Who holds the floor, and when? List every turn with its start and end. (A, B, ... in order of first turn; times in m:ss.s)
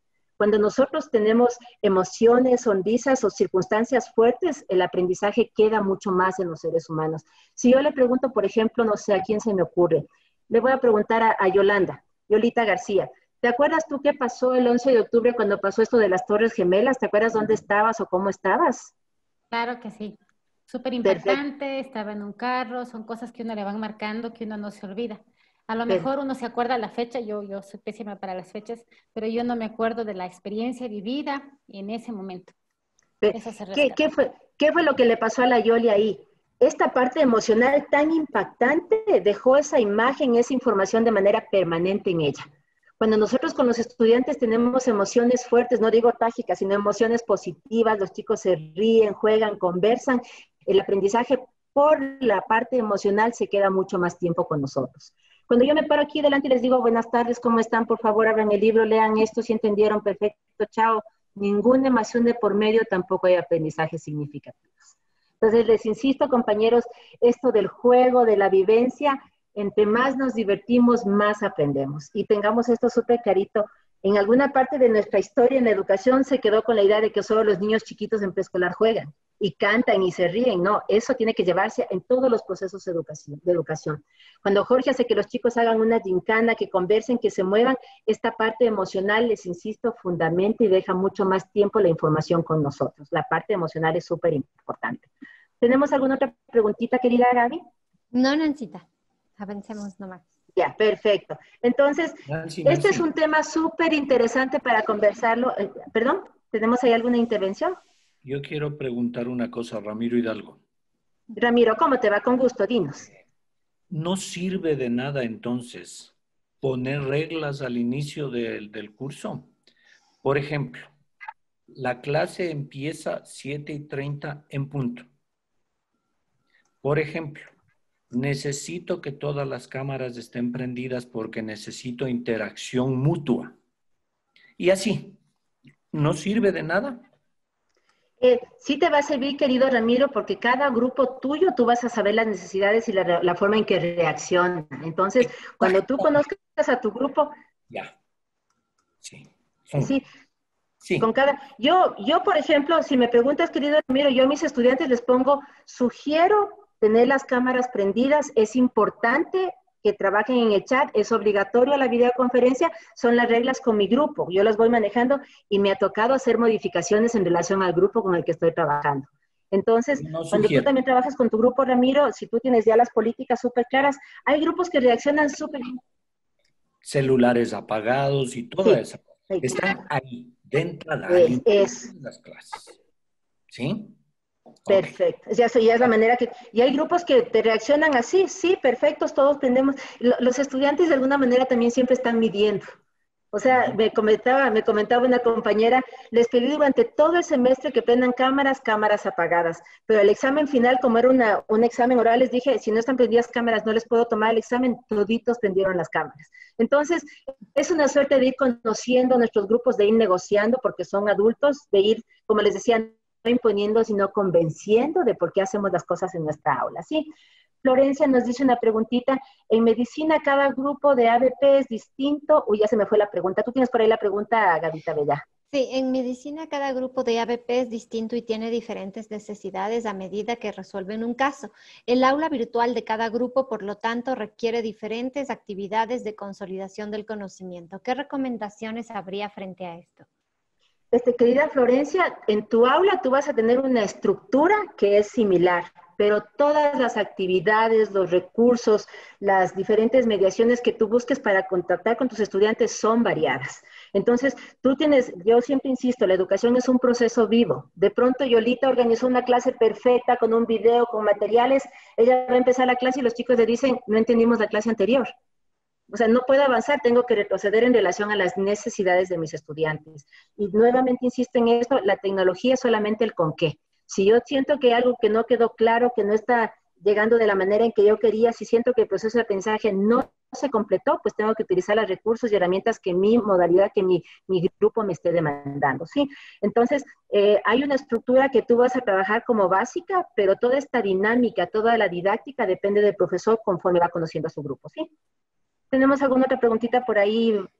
0:00.4-0:18.9 A
0:19.5-0:20.2 B
0:20.7-0:32.5 B
0:21.0-0:21.4 A
0:33.2-0:42.5 A
0:33.3-0:34.0 B
0:43.0-1:04.8 A
1:05.4-1:35.1 A
1:35.6-1:37.6 A
1:38.1-1:38.8 C
1:39.4-1:40.2 C
1:40.5-1:47.8 A
1:42.3-1:43.0 D
1:48.2-1:50.6 D
1:51.4-1:53.0 A
1:53.9-1:59.5 D
2:00.2-2:00.9 D
2:01.7-2:05.1 D
2:06.8-2:07.5 D
2:08.1-2:13.6 D
2:14.6-2:15.2 D
2:15.9-2:17.0 D
2:18.2-2:27.3 A
2:25.4-2:26.1 D
2:29.0-2:29.9 D
2:29.8-2:30.0 A
2:30.8-2:31.1 D
2:31.0-2:55.7 A
2:50.0-2:50.7 D
2:56.8-3:02.8 D
2:58.6-2:59.7 A
3:01.1-3:01.9 A
3:03.5-3:04.0 D
3:04.7-3:04.9 D
3:04.7-3:12.6 A
3:13.3-3:37.1 A
3:37.6-3:45.2 A
3:45.5-4:00.0 C
4:00.9-4:25.1 A
4:25.9-4:54.9 A
4:55.7-4:57.5 A